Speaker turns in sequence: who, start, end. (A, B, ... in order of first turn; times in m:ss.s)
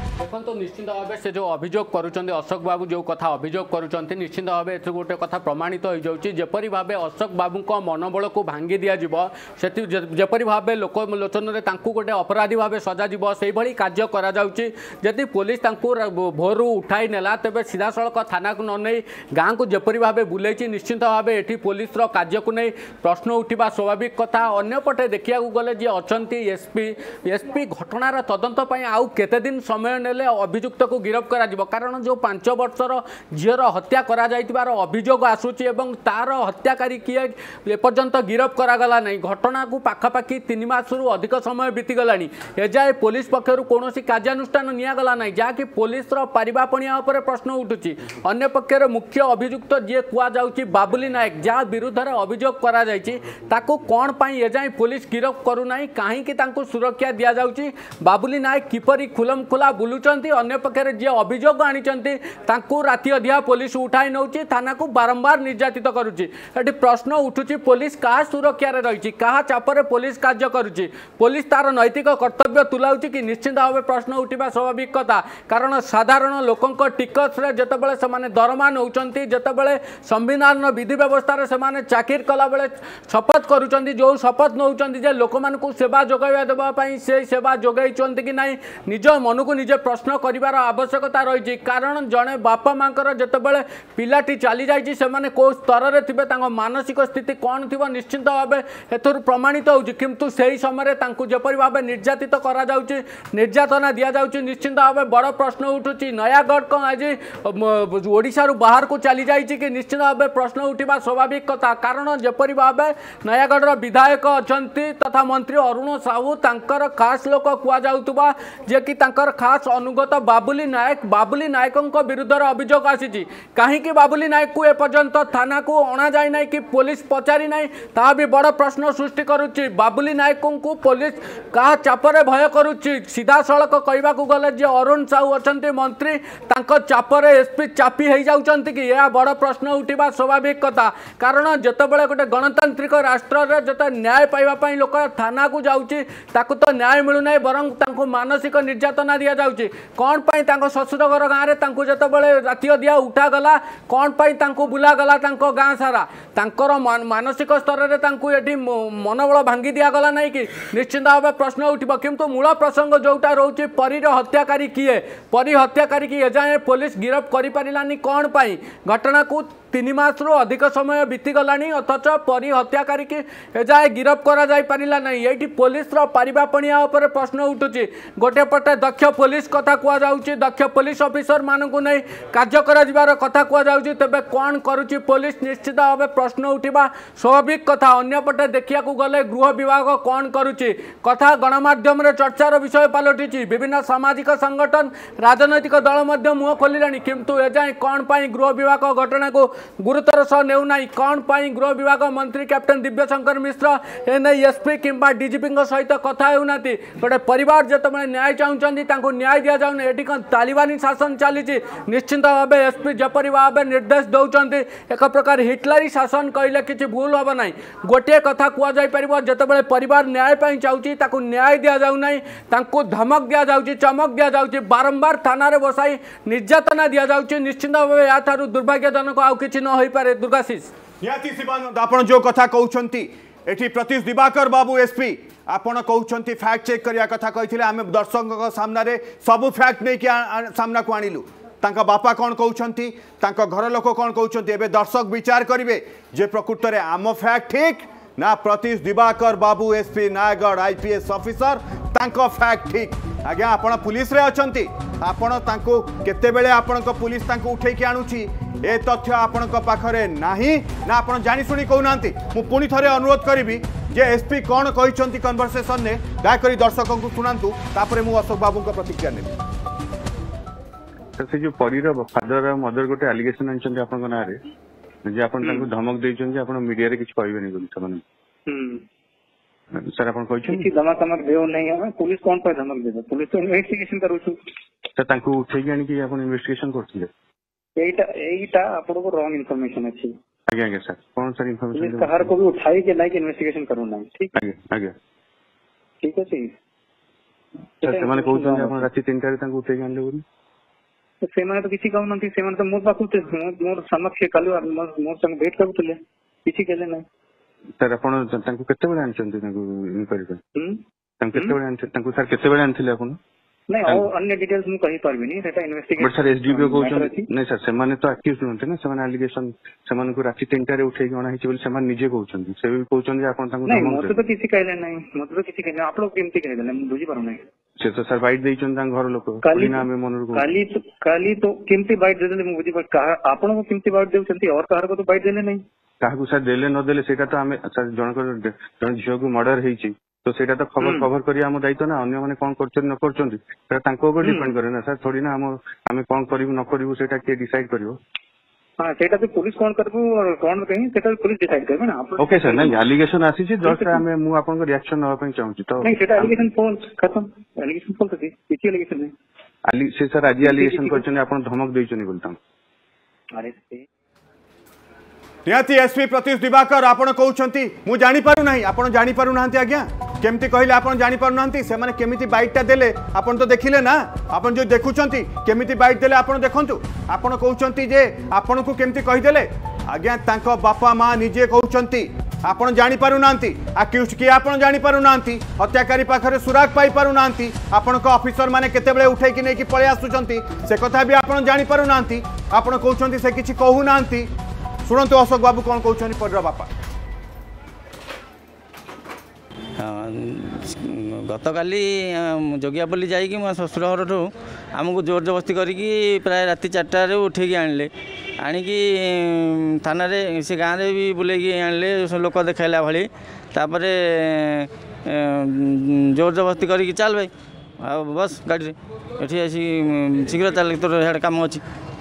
0:00.2-3:50.7 A
3:51.0-4:29.4 B
4:31.2-4:34.4 C
4:35.0-4:38.0 C
4:35.4-4:35.7 D
4:38.5-4:38.8 D
4:39.7-4:40.7 C
4:40.5-4:44.4 D
4:45.0-4:47.1 C
4:47.8-4:50.1 D
4:50.5-4:52.3 C
4:51.7-4:54.3 D
4:54.4-4:55.0 C
4:56.0-4:56.5 D
4:57.8-4:58.9 D
4:57.8-5:00.2 C
5:01.2-5:07.0 D
5:07.8-5:10.4 C
5:10.6-5:10.8 D
5:11.2-5:13.2 C
5:13.7-5:17.3 D
5:16.0-5:24.2 C
5:23.6-5:27.4 D
5:27.8-5:30.5 C
5:29.4-5:35.6 D
5:36.0-5:48.0 C
5:40.8-5:41.1 D
5:44.2-5:44.6 D
5:48.8-5:52.8 D
5:52.2-5:56.3 C
5:53.6-5:54.0 D
5:55.8-5:59.1 D
5:59.6-6:02.4 C
6:00.4-6:01.0 D
6:03.3-6:03.8 D
6:05.4-6:34.3 B
6:34.9-6:36.7 B
6:39.8-6:47.9 E
6:48.4-6:57.3 E
6:57.8-7:01.6 E